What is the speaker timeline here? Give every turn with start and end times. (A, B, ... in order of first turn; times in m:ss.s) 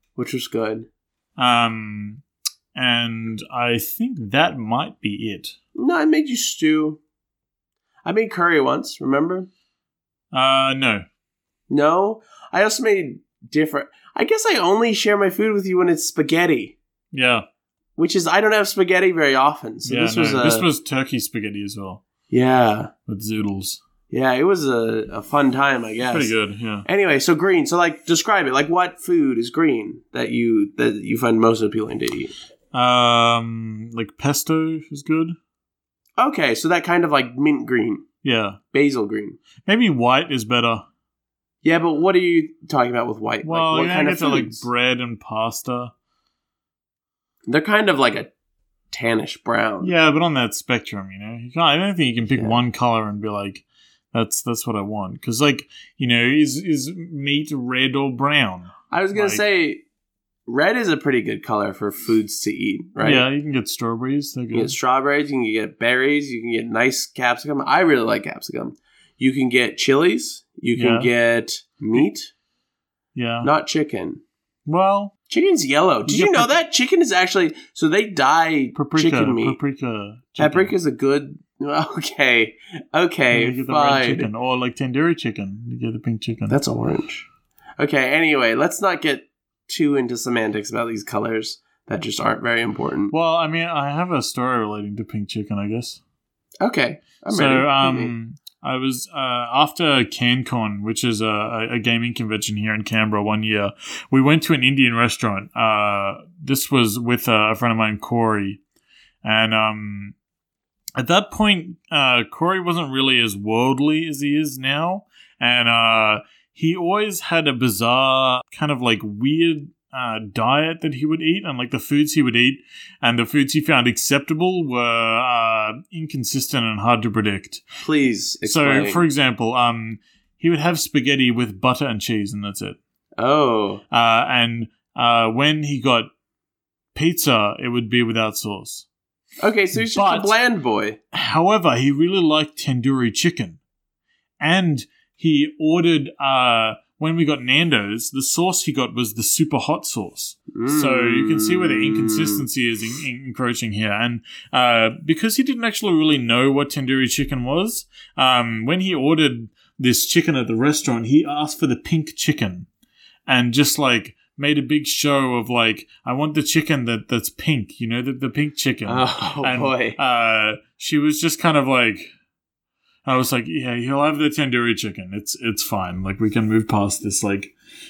0:00.2-0:00.9 A
0:01.4-0:02.2 B
0:02.7-0:05.5 B
0:05.8-0:07.0 A
0:08.0-0:09.5 A
0:10.3-0:11.0 B
0:11.7-0:16.8 A
0:17.1-0:17.4 B
0:18.0-0:20.6 A
0:19.8-0:22.0 B
0:22.3-0:22.9 A
0:23.1-0:23.8 B
0:24.1-0:26.3 A
0:26.1-0:26.9 B
0:26.8-0:32.3 A
0:32.7-0:35.4 B
0:36.2-0:38.0 A
0:38.2-0:38.6 B
0:38.7-0:39.4 A
0:39.6-0:40.8 B
0:41.6-0:44.6 A
0:43.4-0:45.9 B
0:47.5-0:48.3 A
0:48.9-0:49.9 A
0:49.8-0:59.4 B
0:58.9-0:59.8 A
1:00.5-1:03.2 A
1:03.0-1:04.7 B
1:04.5-1:12.3 A
1:10.8-1:11.1 B
1:13.1-1:13.5 B
1:13.4-1:14.2 A
1:14.6-1:15.1 B
1:15.3-1:19.6 A
1:16.0-1:16.6 B
1:18.7-1:20.7 B
1:20.4-1:24.3 A
1:23.3-1:26.6 B
1:26.5-1:27.3 A
1:27.8-1:33.1 A
1:33.1-1:36.0 B
1:36.6-1:38.1 A
1:37.3-1:48.6 B
1:49.2-1:50.1 B
1:51.0-2:07.6 B
2:07.8-2:09.0 A
2:08.4-2:12.8 B
2:13.2-2:13.8 A
2:13.9-2:16.1 B
2:16.9-2:18.8 B
2:19.4-2:21.0 A
2:19.7-2:20.3 B
2:21.1-2:23.6 B
2:24.4-2:42.7 B
2:30.5-2:32.5 A
2:43.3-2:52.1 B
2:48.8-2:50.0 A
2:53.0-2:57.5 B